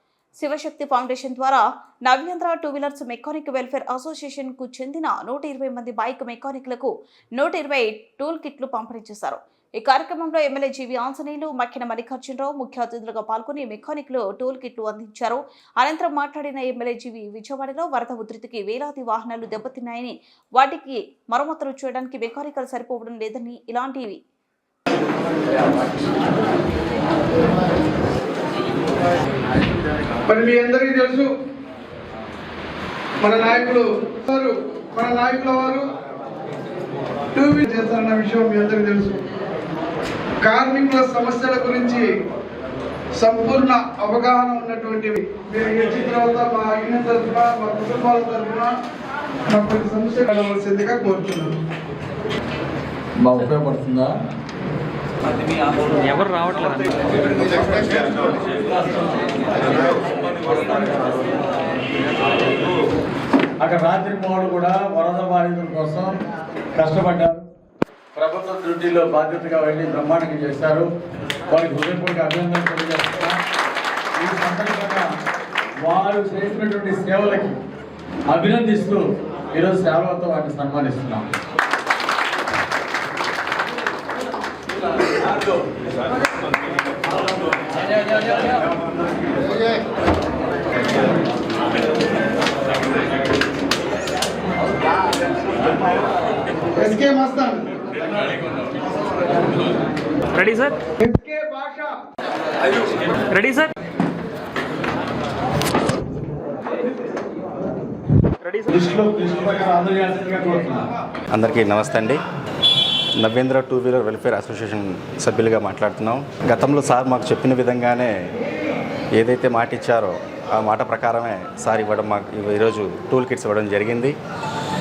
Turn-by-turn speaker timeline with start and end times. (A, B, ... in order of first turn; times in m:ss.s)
0:00.4-0:24.2 A
0:30.3-0:31.3 B
0:33.2-0:35.9 B
0:37.4-0:39.3 B
0:40.4-0:42.1 B
0:43.2-0:48.7 B
0:49.5-0:51.5 B
0:53.2-0:54.1 C
0:55.8-0:57.1 D
0:57.6-0:58.1 C
0:59.7-1:01.4 C
1:03.6-1:06.2 C
1:06.8-1:07.5 C
1:08.2-1:10.9 C
1:11.5-1:13.4 C
1:14.2-1:15.1 C
1:15.9-1:17.6 C
1:18.3-1:19.0 C
1:19.5-1:21.3 C
1:36.7-1:37.6 B
1:40.3-1:40.8 D
1:41.0-1:42.0 B
1:43.2-1:43.7 D
1:48.7-1:50.9 C
1:51.3-1:52.2 E
1:53.2-1:58.1 E
1:59.2-2:04.2 E